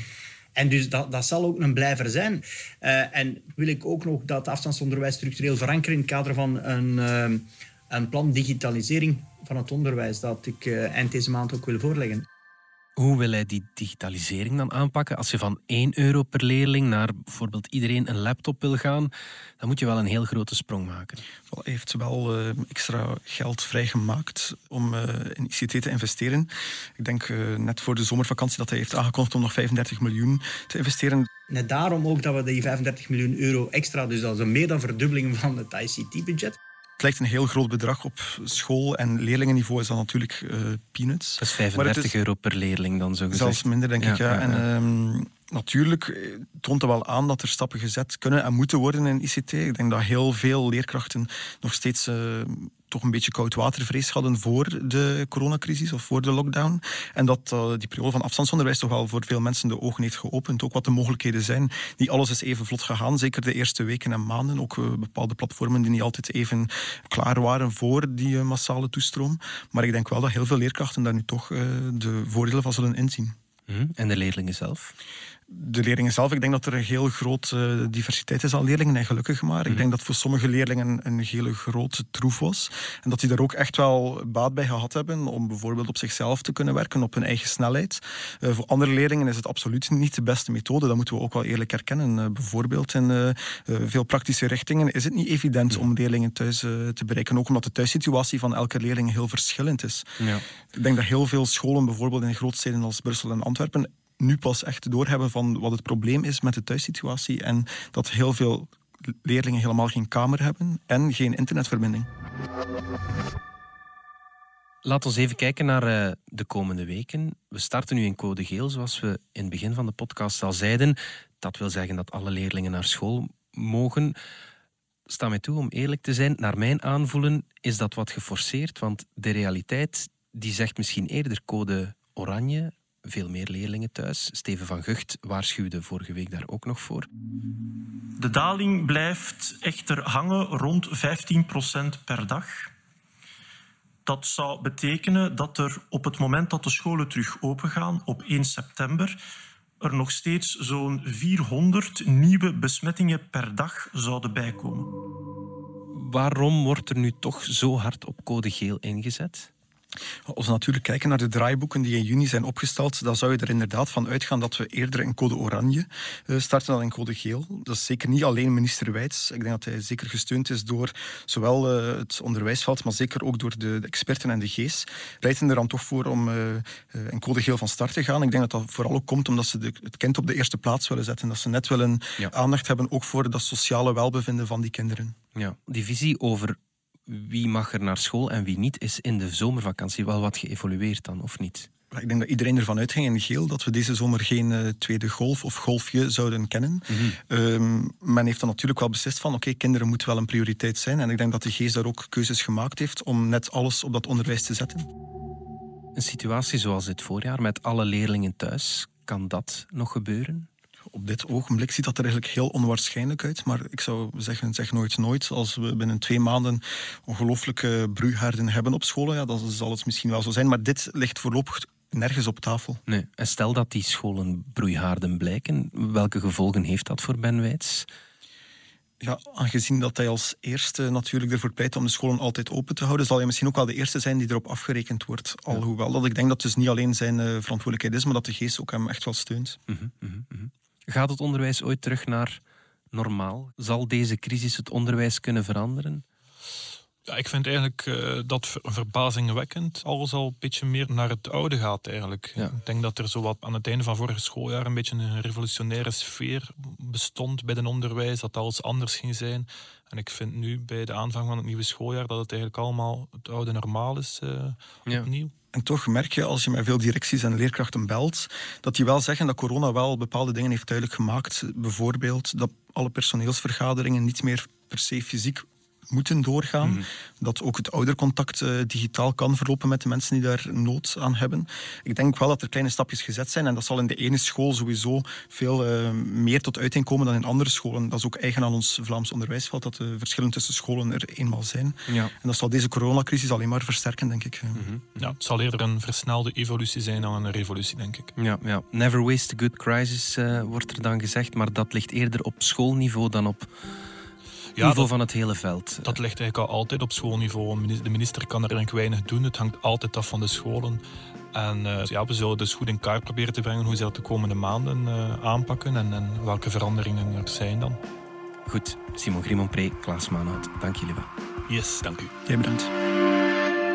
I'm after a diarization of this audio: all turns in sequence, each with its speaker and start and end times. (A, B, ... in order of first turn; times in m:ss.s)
0:00.5-0:12.2 A
0:13.0-0:21.2 B
0:21.5-0:31.3 C
0:31.5-0:36.6 A
0:37.0-0:42.1 C
0:41.4-0:44.6 B
0:43.3-1:13.4 C
1:13.7-1:14.9 B
1:15.5-1:40.2 C
1:40.7-1:52.1 C
1:54.8-2:04.2 B
2:05.1-2:17.1 B
2:18.2-2:22.7 D
2:24.0-2:29.2 D
2:29.8-2:34.9 D
2:35.9-2:39.5 B
2:40.3-3:05.2 C
3:05.3-3:11.7 B
3:11.9-3:24.9 C
3:16.9-3:17.2 B
3:25.9-3:30.5 B
3:30.9-3:42.8 C
3:42.9-3:47.9 B
3:49.0-3:59.6 C
3:59.7-4:02.4 B
4:02.9-4:06.0 B
4:07.1-4:25.3 E
4:25.5-4:54.6 C
4:51.9-4:52.1 B
4:54.6-4:55.0 B
4:55.0-4:58.1 E
4:58.2-5:03.5 B
5:04.6-5:04.9 E
5:04.6-5:05.9 B
5:05.8-5:10.8 E
5:11.3-5:17.8 E
5:18.4-5:21.1 B
5:21.5-5:22.1 E
5:22.2-5:22.7 C